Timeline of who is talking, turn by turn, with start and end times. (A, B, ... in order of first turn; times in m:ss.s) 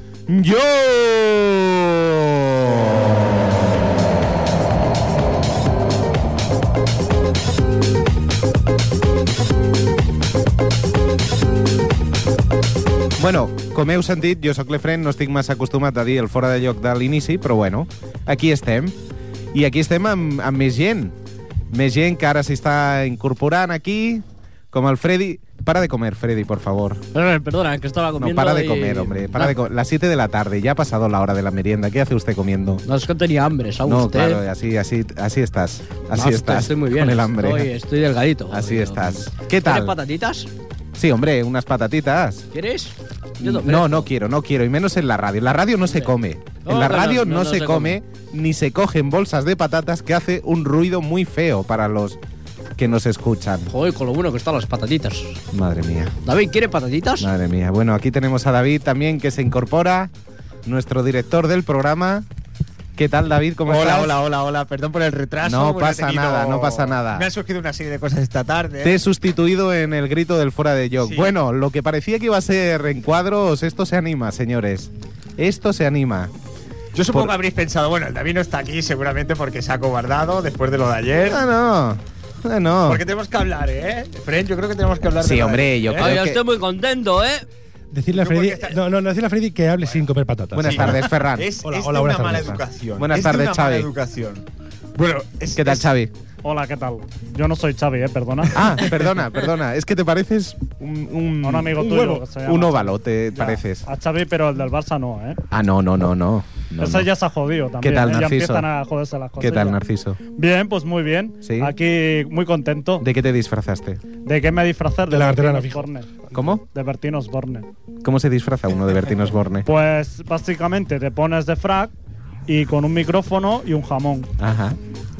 0:00.3-0:03.8 A
0:13.2-0:19.0 A
0:19.5-0:21.2 A
0:21.7-0:27.0 A
0:27.1-0:29.6 B
0:28.2-0:32.8 A
0:32.8-0:34.4 B
0:33.8-0:37.7 A
0:36.1-0:40.5 B
0:38.5-0:40.0 A
0:41.0-0:42.5 A
0:42.5-0:44.1 B
0:43.4-0:52.2 A
0:46.6-0:48.0 B
0:52.8-0:53.7 A
0:53.7-0:55.4 B
0:55.5-0:56.1 A
0:56.2-0:57.3 B
0:57.2-1:00.1 A
1:00.6-1:02.3 A
1:03.0-1:04.2 A
1:03.6-1:09.0 C
1:05.4-1:07.3 A
1:08.8-1:16.3 A
1:11.0-1:11.3 C
1:16.9-1:21.4 C
1:21.3-1:23.0 A
1:22.8-1:26.2 C
1:25.2-1:26.4 A
1:26.0-1:27.4 B
1:27.9-1:31.0 D
1:28.1-1:28.8 C
1:30.5-1:31.5 A
1:30.6-1:34.4 C
1:31.6-1:32.6 D
1:33.0-1:33.9 A
1:35.0-1:35.9 C
1:35.6-1:36.1 A
1:36.4-1:38.6 E
1:38.5-1:43.9 A
1:38.6-1:39.2 C
1:41.4-1:45.4 E
1:41.8-1:42.2 D
1:45.5-1:47.1 A
1:46.8-1:49.8 E
1:47.8-1:48.7 A
1:49.4-1:50.2 A
1:50.4-1:53.0 E
1:51.4-1:51.7 A
1:53.0-1:54.0 A
1:54.2-1:56.1 E
1:55.1-1:55.9 D
1:56.3-1:56.6 A
1:56.6-1:57.7 E
1:58.0-1:59.7 A
1:59.6-2:01.9 E
2:02.5-2:04.3 E
2:04.4-2:04.8 A